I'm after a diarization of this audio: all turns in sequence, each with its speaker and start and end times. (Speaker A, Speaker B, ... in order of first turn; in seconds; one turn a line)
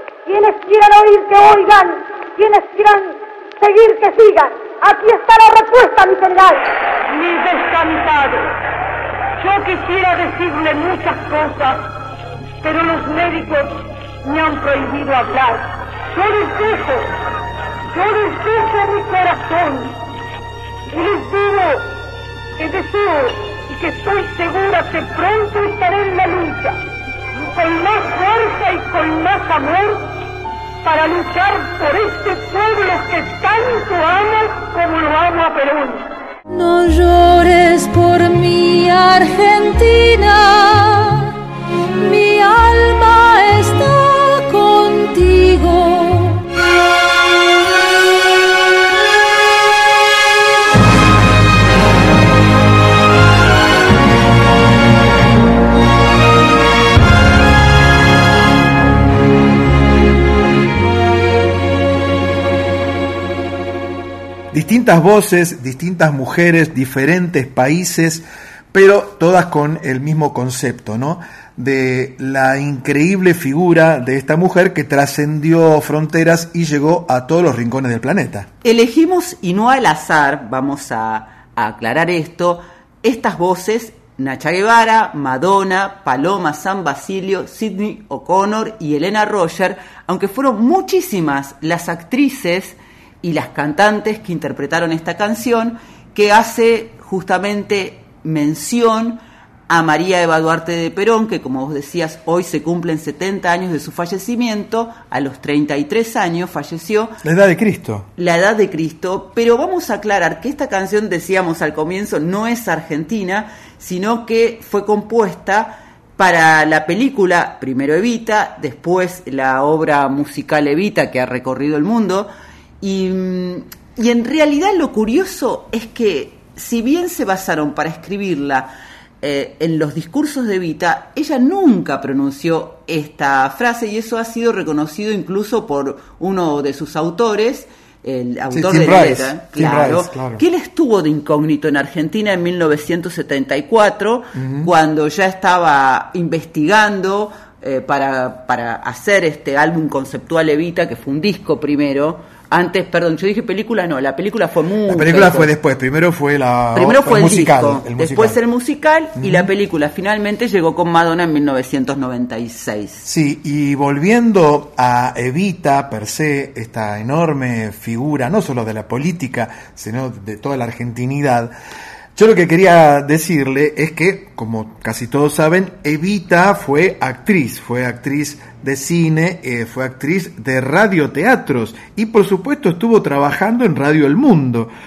Speaker A: 0.2-8.5
Speaker A: 9.4-11.8
Speaker A: 12.6-17.1
Speaker A: 17.9-19.9
Speaker A: 20.9-21.9
Speaker A: 22.6-26.8
Speaker A: 27.5-30.1
Speaker A: 30.8-36.0
Speaker B: 36.5-41.3
Speaker B: 42.0-46.4
Speaker C: 64.5-78.5
Speaker D: 78.6-107.2
Speaker C: 107.2-108.1
Speaker D: 108.2-122.3
Speaker D: 122.8-128.7
Speaker D: 129.2-155.5
Speaker C: 138.5-140.4
Speaker C: 144.3-144.7
Speaker C: 154.9-158.4
Speaker D: 156.7-163.0
Speaker C: 159.2-159.5
Speaker C: 163.0-171.5
Speaker C: 172.2-184.7